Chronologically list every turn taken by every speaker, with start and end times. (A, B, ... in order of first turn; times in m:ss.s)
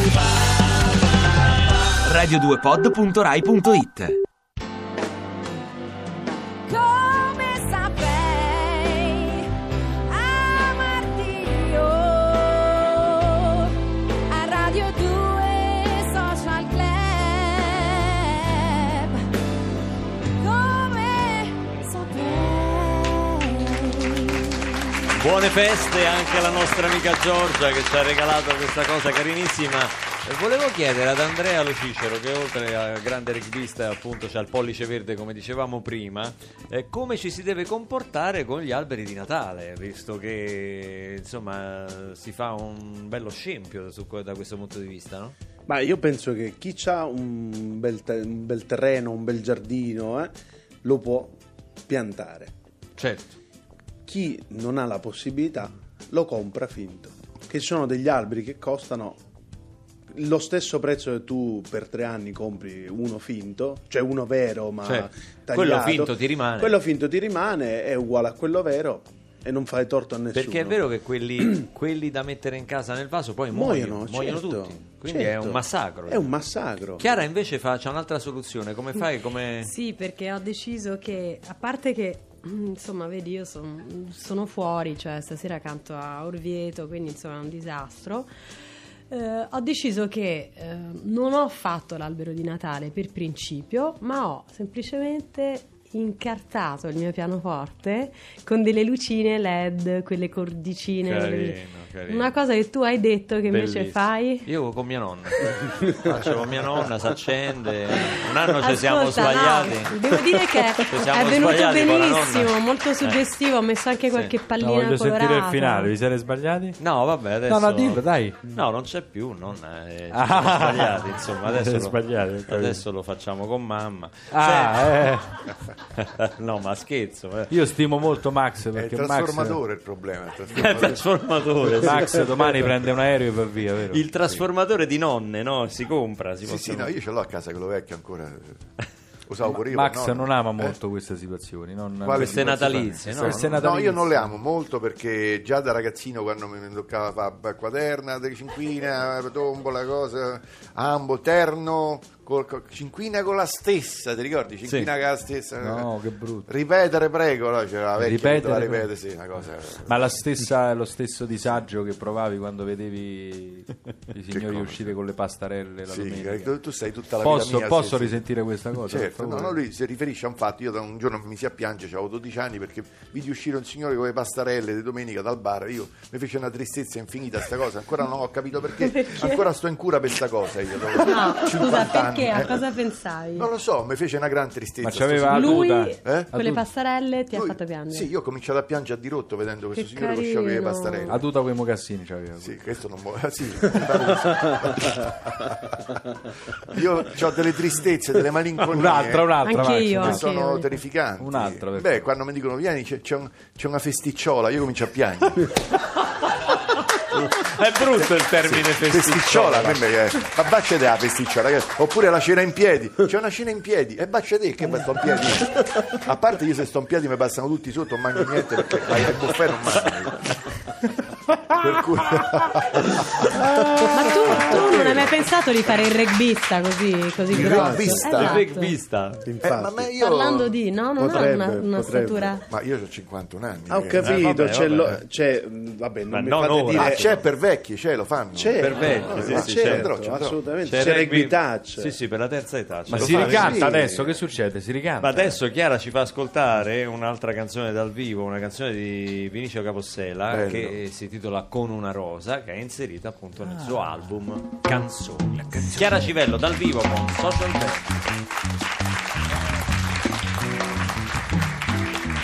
0:06.7-0:09.5 A
0:10.1-0:13.7 A
0:14.3-0:19.1 A
0:20.4-0:23.3 A
0:25.1-0:45.3 B
0:45.7-0:50.3 C
0:50.8-0:51.3 C
0:51.9-0:52.5 C
0:53.0-0:53.3 B
0:54.0-0:59.2 C
1:00.1-1:10.9 C
1:04.8-1:06.8 B
1:10.3-1:16.3 B
1:13.5-1:17.0 C
1:17.0-1:19.7 B
1:19.6-1:28.3 D
1:29.1-1:44.5 D
1:41.0-1:42.3 B
1:43.5-1:50.0 B
1:48.6-1:55.9 D
1:50.9-1:53.2 B
1:54.6-1:56.8 E
1:56.8-2:05.2 B
1:57.5-1:58.4 E
2:00.1-2:02.8 E
2:04.3-2:05.2 E
2:05.9-2:07.6 B
2:07.5-2:09.6 E
2:08.7-2:11.0 F
2:10.5-2:12.7 B
2:11.8-2:14.0 E
2:13.9-2:16.9 B
2:16.4-2:18.6 F
2:19.3-2:20.8 F
2:19.5-2:24.3 E
2:22.0-2:35.9 F
2:22.2-2:23.7 B
2:34.6-2:34.9 B
2:35.6-2:36.5 E
2:36.5-2:40.1 F
2:38.0-2:38.9 E
2:39.8-2:46.5 E
2:44.3-2:44.9 F
2:45.9-2:48.3 F
2:47.2-2:49.6 E
2:48.8-3:02.7 F
2:58.8-2:59.4 D
3:01.0-3:03.5 D
3:03.3-3:06.3 F
3:04.8-3:06.6 E
3:05.3-3:08.1 D
3:07.3-3:11.2 F
3:09.8-3:11.2 D
3:11.1-3:12.5 E
3:12.4-3:15.5 F
3:16.7-3:25.5 F
3:18.7-3:20.2 E
3:19.4-3:20.8 D
3:21.2-3:22.0 E
3:26.5-3:29.9 B
3:28.4-3:40.3 F
3:41.6-3:43.0 F
3:43.9-3:48.8 D
3:44.5-3:45.0 F
3:47.3-3:48.4 F
3:47.3-3:47.8 C
3:48.1-3:49.2 B
3:49.2-3:49.9 C
3:49.4-3:50.6 F
3:50.0-3:52.4 D
3:51.0-3:52.3 C
3:52.4-3:54.2 F
3:53.7-3:57.2 C
3:54.0-3:55.0 B
3:56.1-3:57.2 B
3:56.7-4:00.4 F
3:58.3-4:02.0 C
3:58.6-3:59.9 B
4:00.6-4:03.4 B
4:02.9-4:05.4 E
4:03.0-4:03.6 F
4:03.2-4:04.1 C
4:05.0-4:18.0 B
4:10.3-4:10.8 F
4:13.4-4:13.9 E